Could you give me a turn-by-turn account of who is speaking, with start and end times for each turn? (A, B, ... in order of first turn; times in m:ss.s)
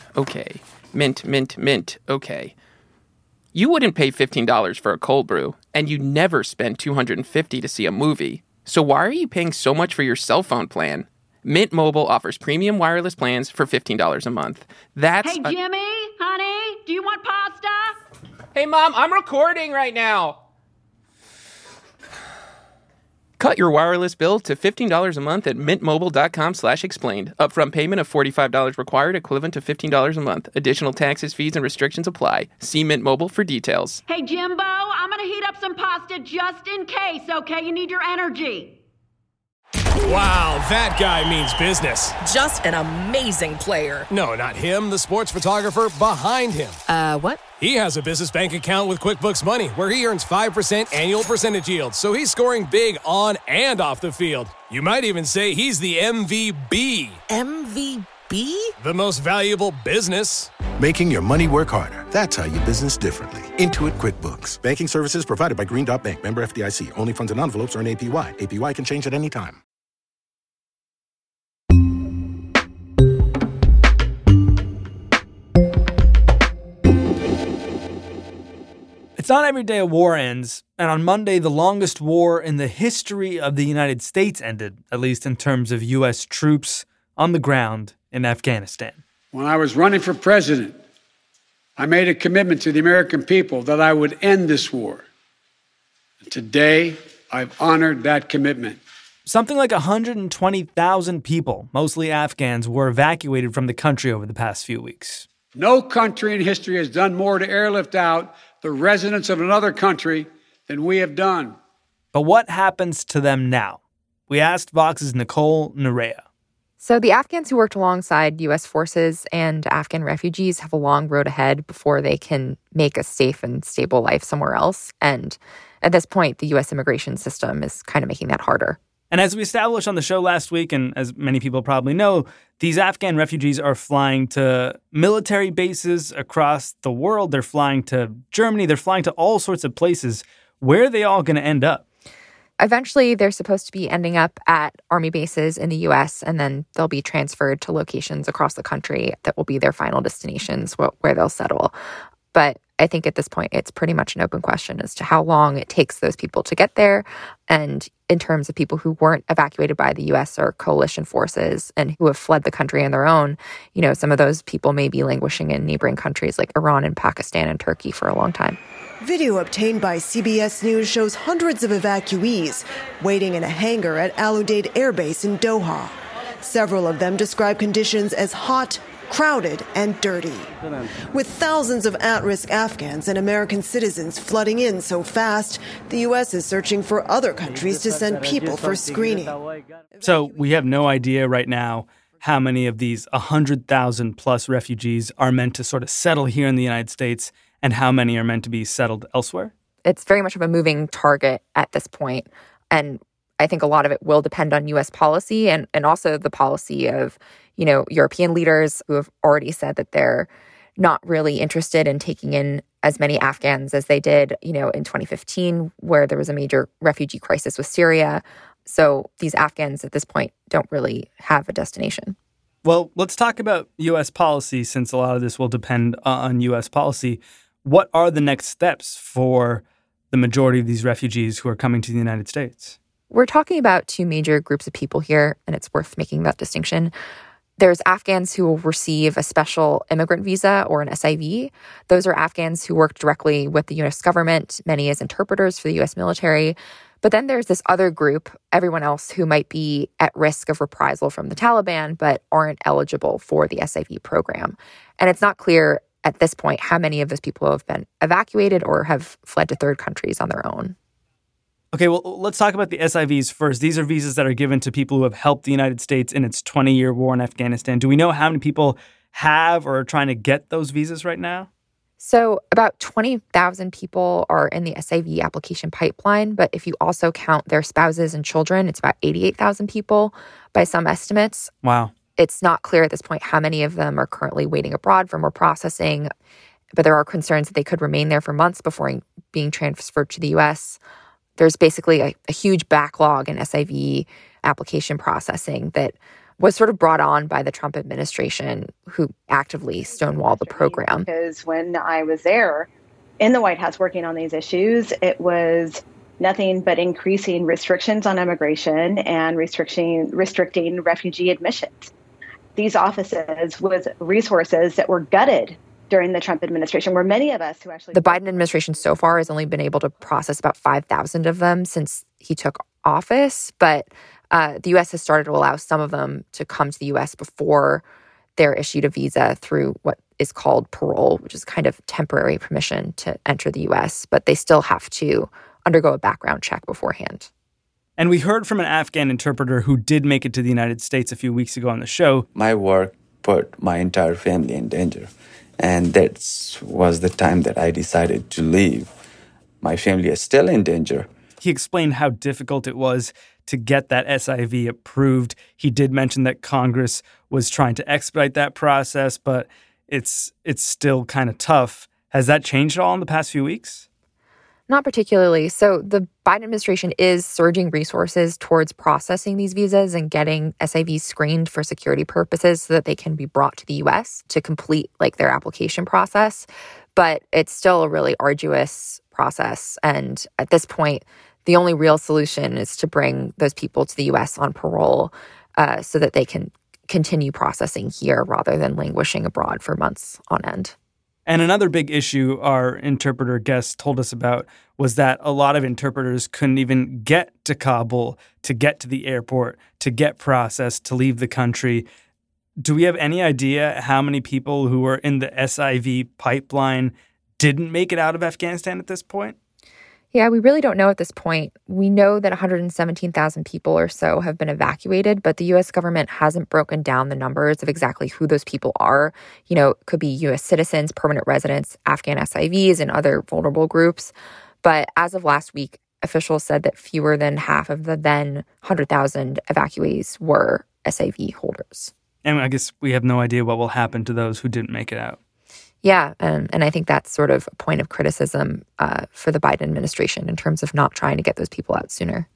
0:00.1-0:02.5 A
0:03.5-0:15.6 A
0:15.2-0:18.0 B
0:18.5-0:20.4 A
0:23.4-0:34.0 A
0:34.1-0:38.8 B
0:40.0-0:42.2 C
0:42.2-0:44.1 D
0:44.1-0:46.8 C
0:46.9-0:47.4 D
0:47.6-0:57.2 C
0:57.3-0:58.7 D
0:58.8-1:00.6 C
1:00.6-1:09.6 E
1:19.2-1:29.0 F
1:29.3-1:30.8 G
1:31.8-1:35.0 G
1:36.2-1:38.8 G
1:39.2-1:45.3 F
1:45.5-1:51.6 G
1:52.1-1:56.2 F
1:56.8-2:08.8 H
2:09.1-2:21.8 F
2:22.6-2:31.7 H
2:32.3-2:48.6 H
2:49.0-3:09.4 I
3:10.0-3:19.5 F
3:19.8-3:42.2 H
3:42.6-3:52.8 F
3:53.1-3:56.9 H
3:57.6-4:20.7 H
4:21.7-4:31.5 F
4:32.0-4:41.5 H
4:41.6-4:41.9 F
4:42.2-4:46.1 H
4:46.7-4:50.8 H
4:51.4-5:01.1 H
4:59.8-5:02.7 J
5:03.2-5:11.9 J
5:12.6-5:18.5 J
5:17.9-5:27.8 H
5:28.4-5:37.3 H
5:38.0-5:42.3 F
5:42.3-5:48.9 K
5:49.6-5:51.1 K
5:51.4-6:03.8 F
6:04.7-6:30.7 H
6:31.2-6:41.8 F
6:42.6-6:49.3 F
6:50.1-7:11.9 H
7:12.2-7:15.2 F
7:15.8-7:22.3 H